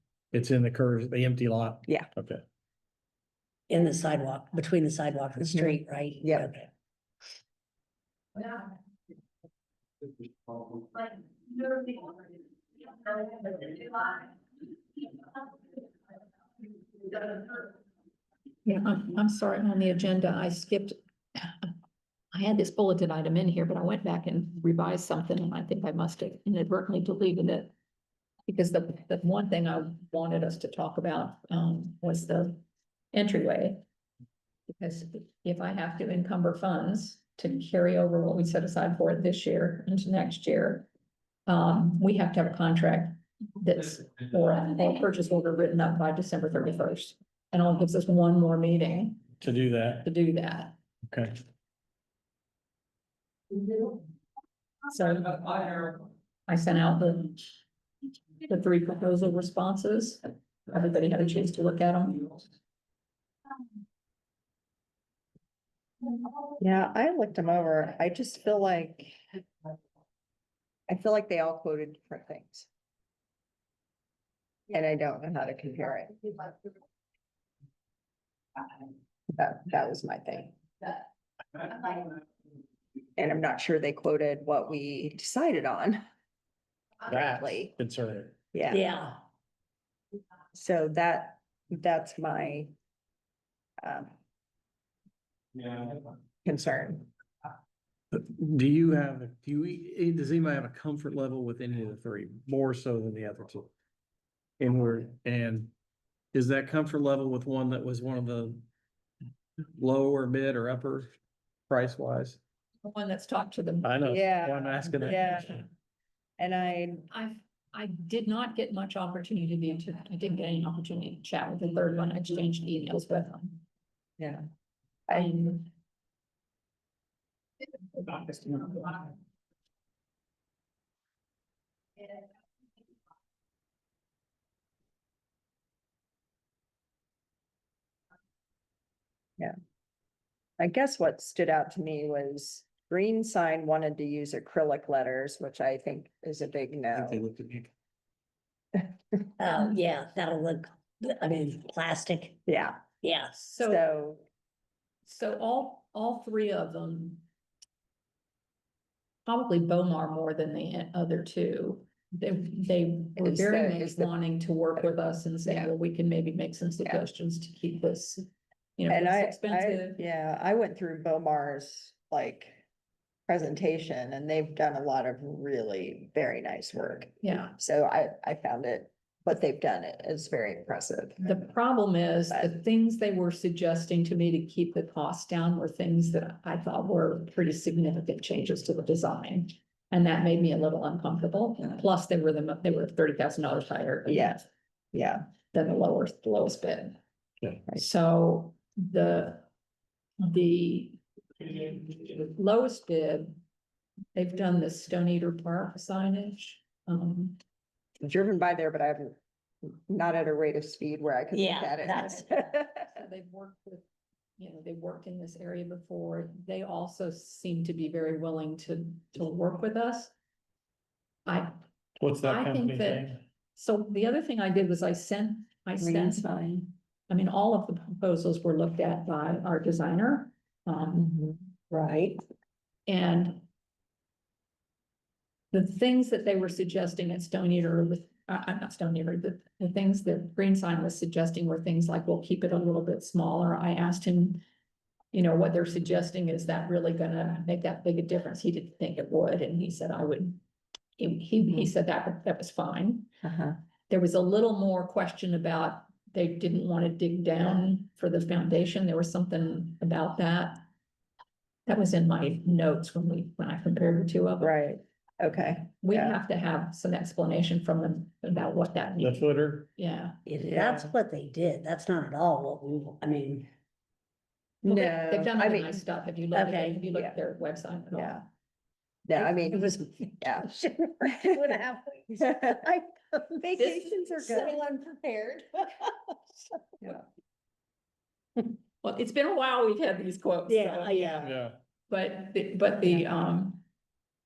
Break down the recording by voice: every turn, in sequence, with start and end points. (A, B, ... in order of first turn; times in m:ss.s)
0:00.3-0:02.4 A
0:03.7-0:06.7 B
0:05.4-0:06.5 C
0:13.3-0:14.1 D
0:17.1-0:17.7 D
0:18.6-0:21.7 D
0:22.3-0:27.7 D
0:28.5-0:33.8 D
0:34.7-0:40.9 D
0:41.5-0:49.3 D
0:49.4-0:50.1 A
0:50.0-0:50.8 D
0:51.1-0:51.4 A
0:54.9-0:57.4 D
0:58.4-1:02.4 D
1:06.6-1:09.2 C
1:10.9-1:12.7 C
1:14.7-1:16.7 C
1:19.4-1:21.0 C
1:21.6-1:22.1 C
1:23.2-1:26.0 C
1:27.1-1:28.4 A
1:27.1-1:27.7 C
1:28.5-1:28.8 C
1:28.7-1:29.2 B
1:30.5-1:32.7 C
1:33.8-1:34.2 C
1:36.4-1:37.1 C
1:38.1-1:43.7 A
1:44.6-1:45.7 A
1:46.3-1:48.6 A
1:49.8-1:51.1 A
1:51.7-1:52.4 A
1:52.8-1:54.0 D
1:53.8-1:55.6 A
1:54.1-1:55.6 C
1:56.4-1:57.1 C
1:57.1-2:03.6 D
2:04.2-2:04.4 C
2:05.1-2:05.4 C
2:05.1-2:05.7 D
2:08.0-2:09.1 D
2:20.6-2:27.2 C
2:27.0-2:27.7 A
2:29.4-2:32.4 B
2:32.5-2:32.8 C
2:33.0-2:33.6 B
2:33.5-2:33.9 D
2:33.6-2:34.2 C
2:35.1-2:37.2 D
2:39.3-2:48.2 D
2:43.2-2:44.1 C
2:45.4-2:45.7 C
2:48.8-2:50.0 D
2:48.9-2:52.6 C
2:53.3-3:01.4 C
2:57.2-2:57.6 D
3:01.2-3:14.4 D
3:14.1-3:15.3 C
3:15.5-3:17.0 D
3:17.8-3:19.5 D
3:20.2-3:23.4 D
3:24.2-3:27.4 D
3:28.0-3:32.9 C
3:31.3-3:32.3 B
3:32.9-3:33.8 D
3:34.4-3:40.1 D
3:41.3-3:41.6 D
3:42.0-3:43.2 A
3:42.2-3:46.3 D
3:45.8-3:46.7 C
3:47.1-3:51.1 D
3:51.0-3:52.2 C
3:52.9-3:53.4 D
3:55.5-4:04.4 D
4:05.1-4:10.4 D
4:11.0-4:13.1 D
4:13.2-4:13.6 C
4:13.9-4:20.6 D
4:21.7-4:24.5 D
4:24.4-4:26.2 C
4:25.8-4:30.2 D
4:29.0-4:29.7 A
4:30.3-4:33.5 B
4:30.4-4:30.9 C
4:34.6-4:35.8 C
4:34.6-4:38.2 D
4:36.3-4:36.8 B
4:37.9-4:38.2 C
4:39.1-4:41.6 C
4:39.2-4:42.5 B
4:42.2-4:45.9 C
4:43.6-4:44.6 D
4:48.8-4:51.2 D
4:50.5-4:51.3 B
4:51.2-4:51.6 A
4:51.9-4:53.6 D